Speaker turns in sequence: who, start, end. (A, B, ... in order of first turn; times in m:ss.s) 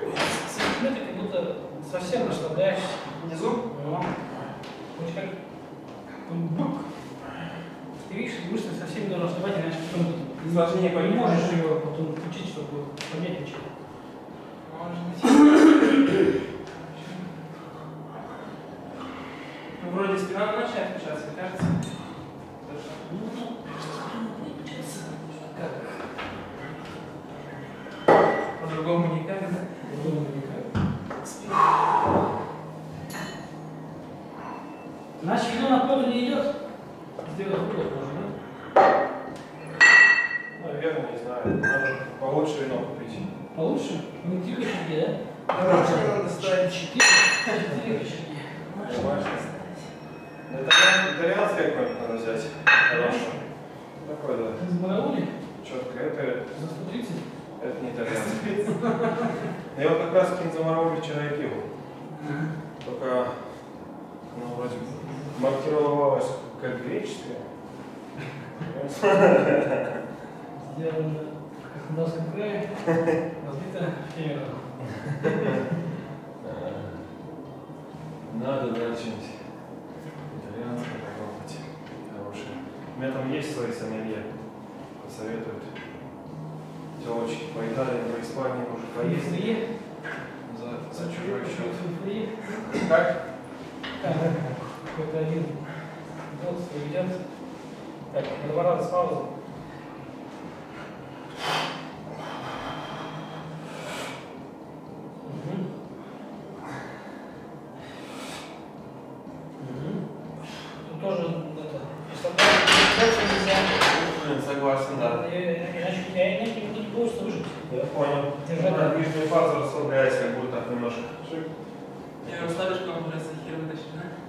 0:00.2-0:04.1 A
0:03.2-0:03.6 B
0:04.9-0:05.3 A
0:06.2-0:06.9 A
0:08.0-0:13.6 A
0:10.4-0:11.6 B
0:14.6-0:15.9 B
0:17.0-0:17.3 B
0:19.8-0:22.0 B
0:22.6-0:23.1 B
0:23.1-0:26.1 A
0:28.6-0:29.9 B
0:29.8-0:30.7 A
0:31.2-0:31.7 B
0:35.2-0:36.5 A
0:37.2-0:38.3 A
0:40.6-0:43.3 C
0:43.5-0:48.7 A
0:45.5-0:47.4 B
0:45.6-0:46.0 C
0:48.6-0:49.8 B
0:48.8-0:49.5 C
0:50.4-0:54.6 C
0:52.9-0:53.4 A
0:54.6-0:55.3 A
0:55.6-0:56.4 C
0:56.5-0:57.2 A
0:57.6-0:58.6 C
0:58.5-0:59.3 A
0:59.7-1:01.6 C
1:02.1-1:02.5 A
1:02.8-1:07.5 C
1:08.6-1:10.0 C
1:10.6-1:15.0 A
1:16.4-1:17.0 C
1:18.2-1:19.5 C
1:20.3-1:25.8 C
1:26.9-1:29.6 C
1:29.0-1:29.7 A
1:30.4-1:31.8 C
1:30.9-1:32.8 A
1:32.7-1:33.2 C
1:34.0-1:37.3 A
1:38.1-1:39.3 A
1:45.2-1:45.7 A
1:49.6-1:50.0 A
1:50.8-1:53.7 A
1:53.7-1:55.2 C
1:54.9-1:57.6 A
1:57.7-2:01.5 C
1:58.4-1:59.3 A
2:02.2-2:02.6 C
2:02.2-2:04.1 B